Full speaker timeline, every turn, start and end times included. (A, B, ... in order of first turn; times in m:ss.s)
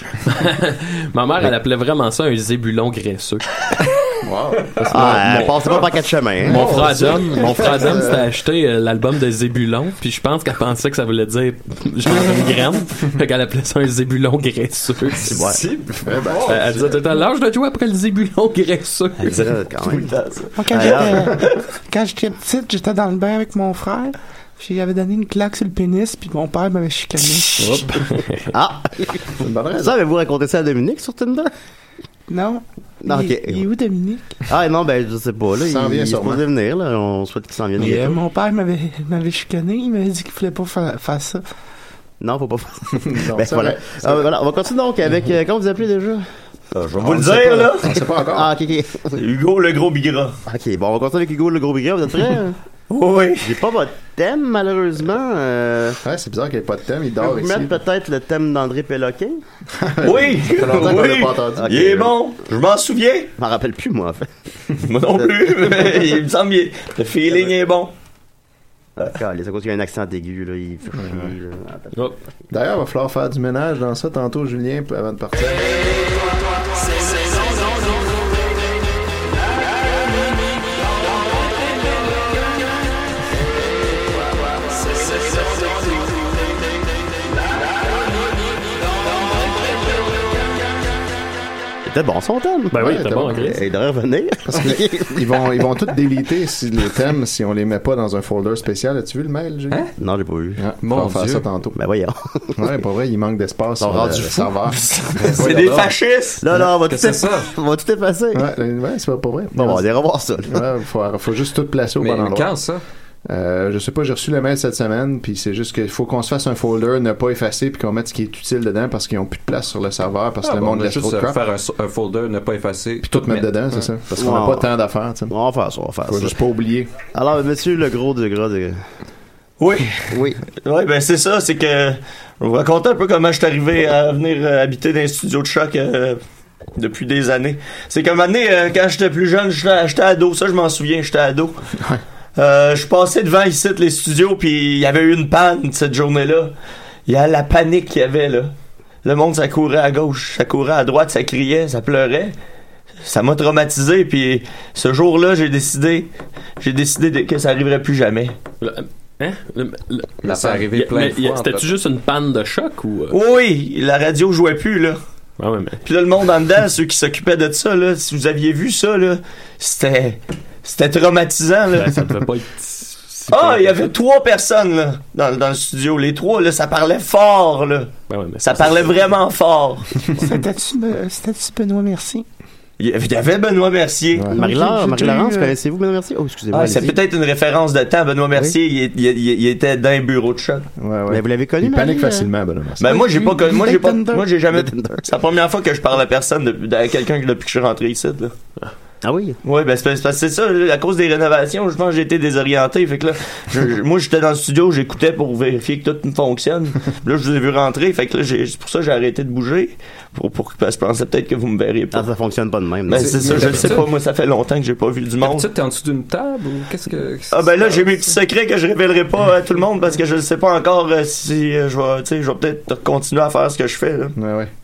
0:00.2-0:03.4 A
0:04.2-0:05.2 B
0:04.8-0:05.8 A
0:04.9-0:07.9 C
0:06.4-0:15.4 A
0:06.5-0:08.2 B
0:15.3-0:15.6 C
0:15.3-0:16.9 D
0:16.0-0:16.9 B
0:16.5-0:19.5 A
0:19.2-0:20.1 C
0:19.8-0:21.6 E
0:20.6-0:27.9 F
0:20.7-0:21.4 C
0:27.6-0:28.5 A
0:28.5-0:31.5 C
0:29.4-0:29.9 B
0:32.3-0:34.4 F
0:33.0-0:33.7 C
0:34.5-0:38.2 C
0:35.6-0:36.4 B
0:37.8-0:41.4 F
0:42.2-0:46.2 C
0:43.0-0:44.2 B
0:47.0-0:47.9 E
0:47.0-0:48.5 B
0:47.9-0:49.2 C
0:49.1-0:50.4 E
0:50.4-0:52.6 C
0:52.9-0:53.6 E
0:53.4-0:56.0 C
0:56.0-0:57.7 B
0:57.2-0:59.4 C
0:59.8-1:02.0 B
1:00.0-1:03.3 E
1:00.7-1:01.0 C
1:01.6-1:02.1 C
1:03.4-1:04.3 C
1:04.8-1:07.9 E
1:05.2-1:06.0 C
1:09.0-1:12.0 C
1:11.0-1:11.3 B
1:12.5-1:16.1 B
1:31.8-1:35.6 C
1:32.7-1:33.6 A
1:32.8-1:33.5 B
1:34.5-1:39.9 B
1:40.0-1:40.6 C
1:40.6-1:41.8 B
1:40.8-1:41.4 D
1:41.8-1:42.7 C
1:42.6-1:44.8 B
1:43.8-1:44.5 C
1:44.7-1:46.4 E
1:45.2-1:45.9 D
1:46.4-1:48.4 C
1:46.5-1:47.5 D
1:48.3-1:49.8 B
1:49.5-1:50.6 C
1:50.5-1:52.6 B
1:52.0-1:52.8 D
1:53.2-2:01.4 B
2:00.4-2:03.8 D
2:03.0-2:05.3 B
2:04.2-2:04.7 C
2:05.3-2:06.3 C
2:06.1-2:06.9 B
2:07.1-2:08.8 C
2:09.6-2:16.2 E
2:10.1-2:10.4 C
2:16.8-2:21.6 E
2:22.4-2:26.5 E
2:27.1-2:28.5 E
2:29.0-2:32.3 E
2:33.0-2:36.1 E
2:36.6-2:38.4 E
2:38.6-2:43.2 A
2:40.2-2:41.7 D
2:43.1-2:45.0 E
2:45.4-2:45.8 A
2:45.8-2:52.0 E
2:51.7-2:53.8 A
2:53.3-2:59.9 E
2:58.1-2:59.0 A
3:00.2-3:02.2 F
3:02.8-3:04.3 E
3:04.1-3:04.4 B
3:04.3-3:07.0 C
3:04.3-3:05.5 F
3:06.5-3:10.7 E
3:10.8-3:12.9 B
3:11.1-3:12.3 C
3:12.8-3:18.3 E
3:12.8-3:14.3 F
3:14.5-3:15.1 C
3:19.0-3:19.4 C
3:19.4-3:32.1 E
3:31.9-3:33.8 C
3:32.9-3:35.5 E
3:33.0-3:33.9 D
3:35.2-3:38.0 D
3:37.3-3:44.1 E
3:44.2-3:44.5 B